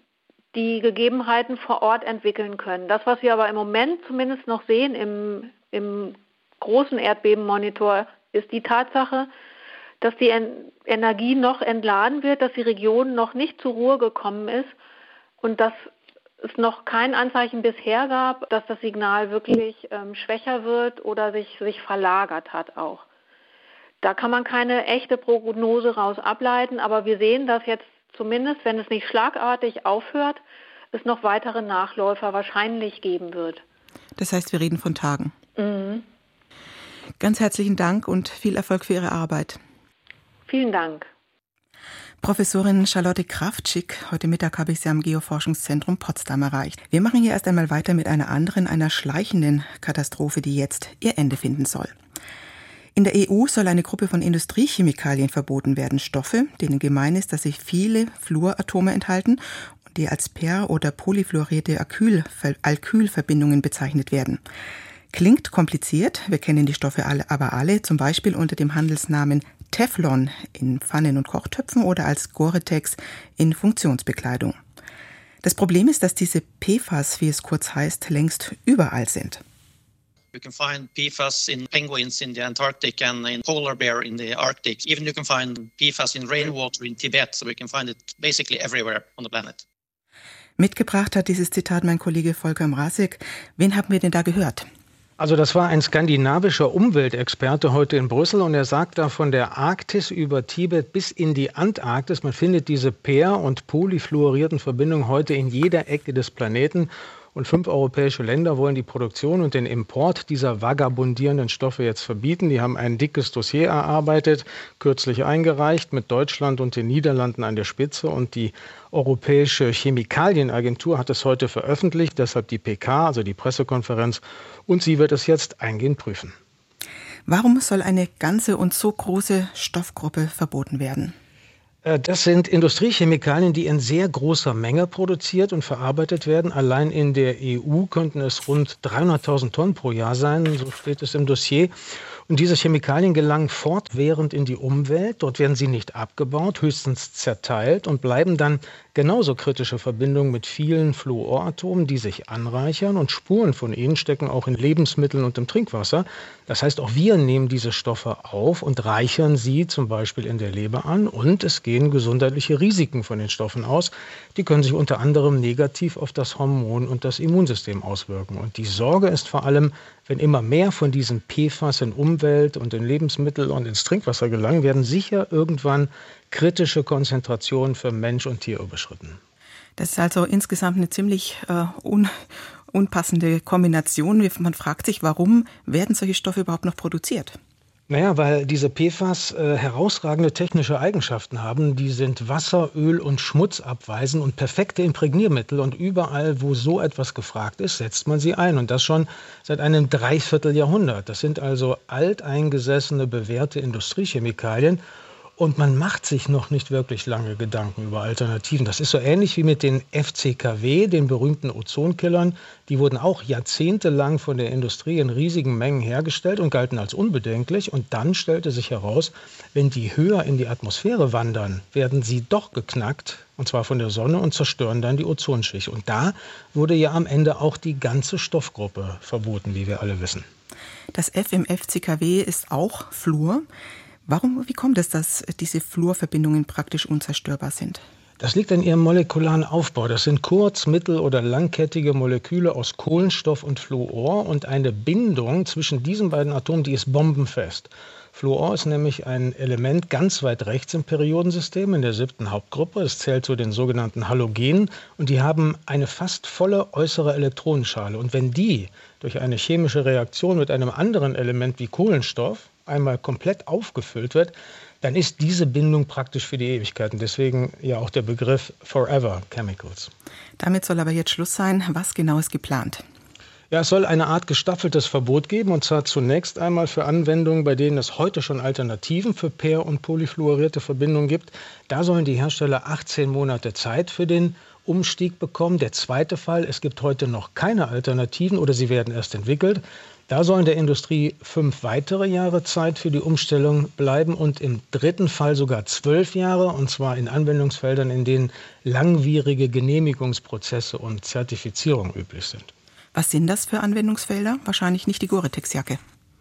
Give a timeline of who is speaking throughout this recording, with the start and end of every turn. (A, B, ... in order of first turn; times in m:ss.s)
0:00.5-0:09.3 A
0:10.0-0:14.7 A
0:15.4-0:15.9 A
0:16.4-0:23.0 A
0:24.0-0:30.4 A
0:30.9-0:33.6 A
0:34.2-0:35.3 B
0:35.6-0:36.0 A
0:37.2-0:39.6 B
0:40.5-0:41.1 A
0:42.2-0:51.9 B
0:53.0-1:04.4 B
1:05.1-1:14.6 B
1:15.4-1:19.4 B
1:20.3-1:29.6 C
1:30.6-1:34.7 B
1:35.2-2:06.4 D
2:07.3-2:11.2 B
2:11.8-2:21.7 D
2:22.3-2:59.2 D
2:59.8-3:07.4 B
3:07.9-3:24.8 D
3:25.4-3:50.2 D
3:50.9-3:53.5 B
3:54.1-3:57.8 B
3:58.2-4:29.9 D
4:30.4-4:32.8 B
4:33.5-5:02.5 D
5:02.9-5:05.8 B